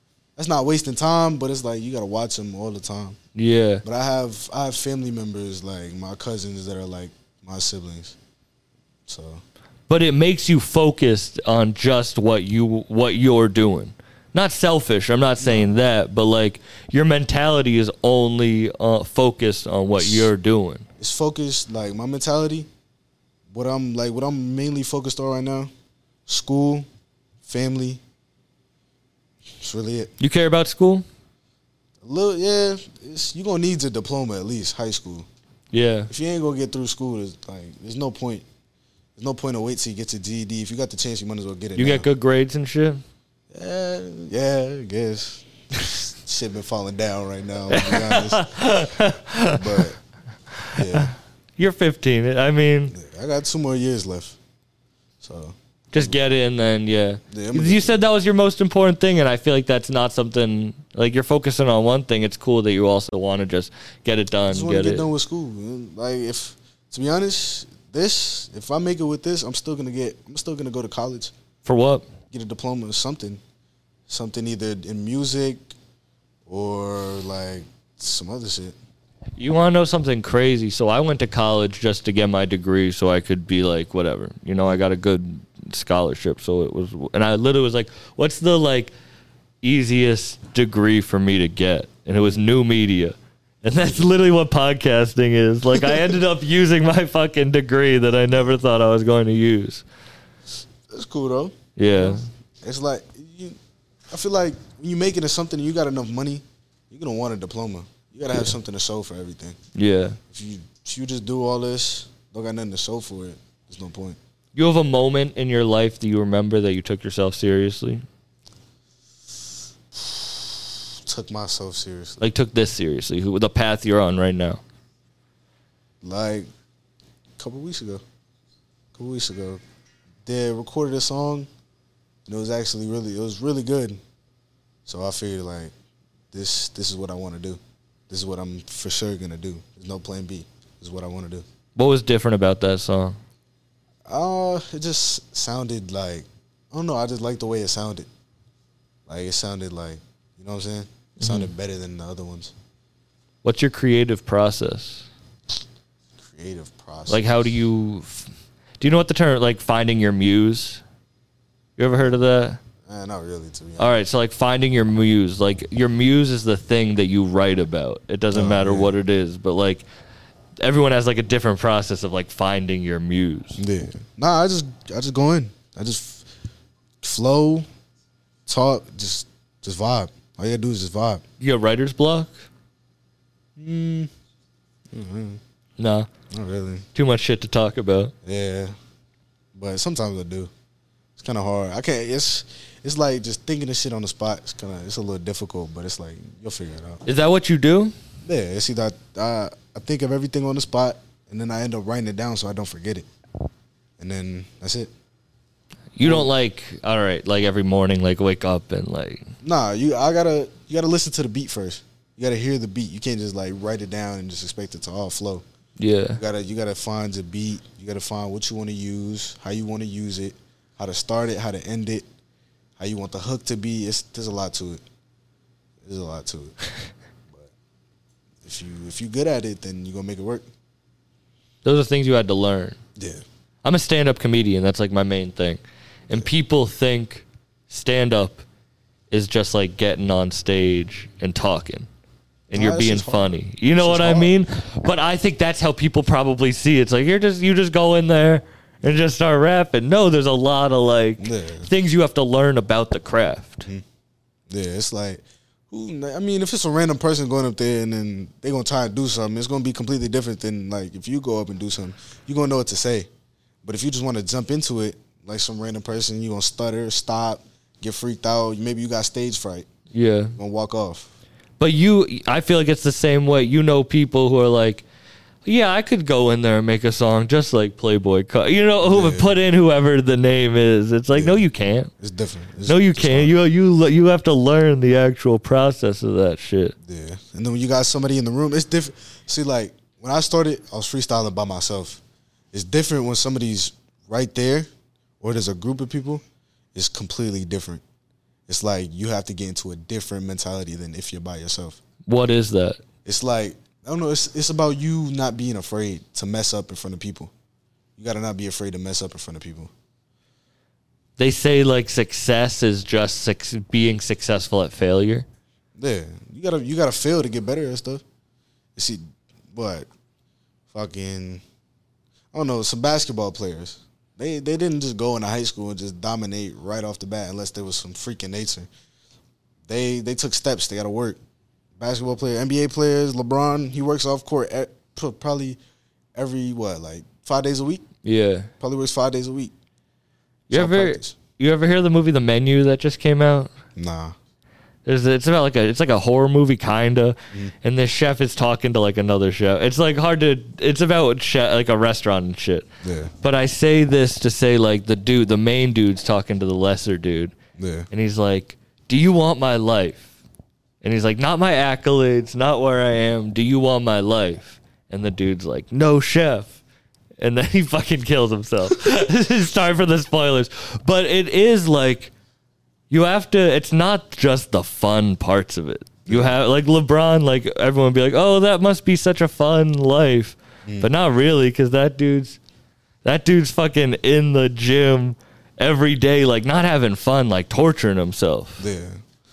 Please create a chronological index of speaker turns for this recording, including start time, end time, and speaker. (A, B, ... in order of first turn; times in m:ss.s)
0:00.4-0:03.2 A
0:03.4-0:03.8 B
0:03.8-0:08.2 A
0:09.1-0:09.4 A
0:09.9-0:20.9 B
0:15.4-0:15.7 A
0:20.0-0:20.3 A
0:21.0-0:22.7 A
0:23.5-0:25.7 A
0:26.3-0:26.9 A
0:27.4-0:28.0 A
0:29.6-0:30.1 A
0:30.2-0:31.0 B
0:32.0-0:35.3 A
0:35.7-0:36.1 B
0:36.1-0:38.4 A
0:39.2-0:42.1 A
0:41.8-0:43.0 B
0:43.5-0:48.5 A
0:47.7-0:49.8 B
0:49.5-0:50.0 A
0:50.6-0:53.0 B
0:50.7-0:51.1 A
0:52.9-0:54.4 A
0:55.2-0:56.2 A
0:55.9-1:05.1 B
0:57.3-0:58.0 A
1:04.5-1:11.3 A
1:11.6-1:12.1 B
1:12.3-1:13.4 A
1:14.1-1:15.7 A
1:16.5-1:18.8 A
1:19.4-1:28.9 B
1:29.6-1:39.8 B
1:33.7-1:34.0 A
1:35.8-1:36.1 A
1:40.9-1:43.6 A
1:41.8-1:42.3 B
1:44.1-1:49.6 A
1:49.8-1:50.2 B
1:50.3-1:54.2 A
1:54.6-1:58.0 B
1:59.9-2:02.2 A
2:02.2-2:04.6 B
2:06.0-2:06.5 A
2:07.4-2:08.0 A
2:09.0-2:09.6 A
2:10.2-2:11.5 A
2:12.3-2:14.0 A
2:14.9-2:15.7 A
2:16.3-2:21.4 A
2:21.8-2:23.2 B
2:24.1-2:28.1 A
2:29.1-2:32.5 A
2:31.2-2:31.5 B
2:33.4-2:35.1 B
2:36.2-2:37.4 A
2:37.1-2:38.3 B
2:38.8-2:40.8 B
2:41.8-2:42.6 B
2:42.8-2:43.9 A
2:43.8-2:49.8 B
2:48.3-2:49.0 A
2:50.6-2:53.6 B
2:53.6-2:56.3 A
2:57.0-2:57.7 A
2:58.5-3:01.2 A
3:01.4-3:02.4 B
3:03.6-3:04.1 A
3:04.9-3:05.4 A
3:05.8-3:06.1 B
3:06.3-3:06.9 A
3:07.0-3:08.1 B
3:08.2-3:08.7 A
3:09.6-3:10.5 A
3:11.2-3:17.0 A
3:17.1-3:17.9 B
3:18.2-3:23.1 A
3:24.0-3:24.9 A
3:26.0-3:29.3 B
3:26.0-3:26.3 A
3:29.4-3:35.4 A
3:35.8-3:36.2 B
3:36.2-3:42.0 A
3:42.8-3:44.8 A
3:45.8-3:46.6 A
3:48.4-3:50.5 A
3:51.6-3:52.8 B
3:53.0-3:53.2 A
3:53.6-3:58.4 B
3:59.1-4:01.9 B
4:02.5-4:13.7 B
4:02.5-4:04.4 A
4:11.2-4:11.7 A
4:14.5-4:23.1 A
4:23.6-4:29.7 A
4:29.9-4:30.4 B
4:30.4-4:31.1 A
4:31.6-4:34.8 B
4:35.4-4:41.9 B
4:38.8-4:39.4 A
4:41.1-4:41.4 A
4:42.0-4:43.4 A
4:42.7-4:46.8 B
4:46.8-4:52.0 A
4:52.5-4:54.7 A
4:55.2-4:56.2 A
4:56.8-4:57.8 A
4:58.5-5:01.8 A
5:02.1-5:02.8 B
5:03.0-5:07.3 A
5:08.0-5:09.7 A
5:11.2-5:15.3 B
5:15.8-5:18.0 A
5:18.8-5:19.9 A
5:20.7-5:21.4 A
5:22.3-5:28.7 A
5:29.7-5:31.2 A
5:31.8-5:35.6 A
5:36.2-5:37.9 A
5:38.0-5:38.5 B
5:38.6-5:39.5 A
5:40.5-5:43.5 B
5:40.5-5:41.2 A
5:43.8-5:44.2 A
5:44.8-5:52.7 B
5:52.8-5:53.1 A
5:53.2-5:57.4 B
5:57.6-5:57.9 A
5:57.9-6:00.1 B
6:00.8-6:06.6 B
6:07.2-6:12.1 B
6:12.9-6:22.4 B
6:16.1-6:16.4 A
6:23.0-6:28.6 B
6:28.6-6:29.0 A